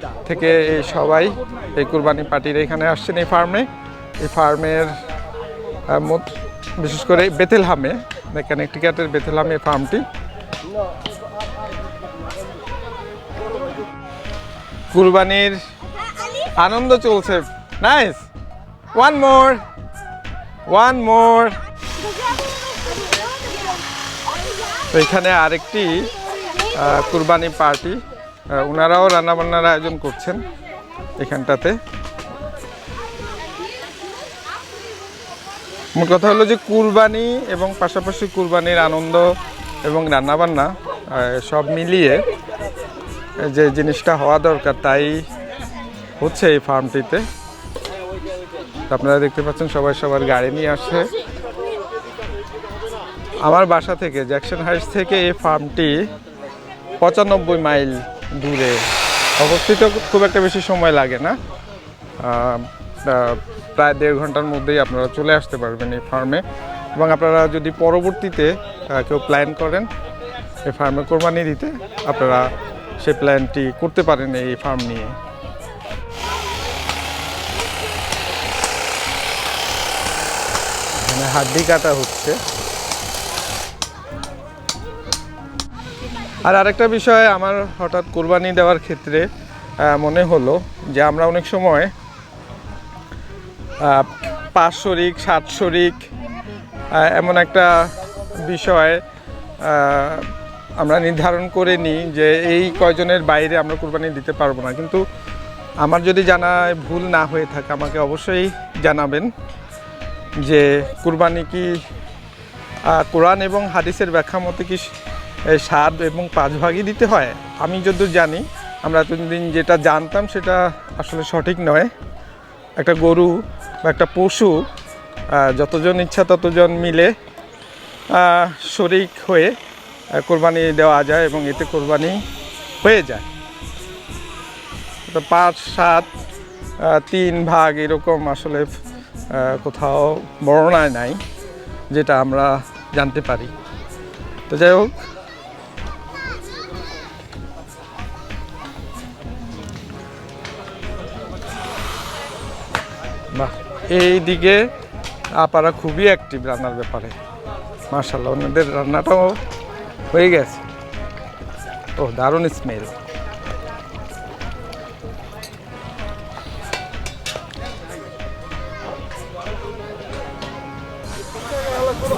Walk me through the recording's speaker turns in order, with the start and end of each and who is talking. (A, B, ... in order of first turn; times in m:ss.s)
0:00.2-0:03.7 A
0:04.2-0:04.9 A
0:05.9-0:10.0 A
0:14.9-0:15.6 A
0:16.6-0:18.2 A
0:18.9-0:19.6 A
0:20.7-0:21.6 A
0:24.9-0:26.1 A
0:26.7-0:28.0 A
0:28.5-0:30.4 A
0:31.2-0:31.8 A
0:36.0-0:39.3 A
0:39.8-0:42.3 A
0:43.4-0:45.2 A
0:46.2-0:47.2 A
0:48.9-0:51.1 A
0:53.4-0:55.9 A
0:57.0-0:58.8 A
0:59.4-1:01.4 A
1:02.2-1:06.4 A
1:06.9-1:09.9 A
1:10.6-1:12.5 A
1:13.0-1:15.1 A
1:21.0-1:22.4 A
1:26.4-1:29.2 A
1:29.8-1:31.9 A
1:33.8-1:36.0 A
1:36.9-1:39.0 A
1:39.6-1:45.0 A
1:45.8-1:49.3 A
1:50.4-1:51.7 A
1:52.9-1:54.9 A
1:55.5-2:01.9 A
2:02.8-2:04.6 A
2:05.3-2:07.1 A
2:08.1-2:09.5 A
2:10.2-2:12.2 A
2:12.8-2:13.2 A
2:15.1-2:16.1 A
2:16.8-2:18.7 A
2:19.3-2:21.2 A
2:21.9-2:23.5 A
2:24.5-2:24.9 A
2:33.3-2:34.6 A
2:35.4-2:37.1 A
2:37.9-2:39.4 A
2:40.1-2:40.6 A
2:42.0-2:42.9 A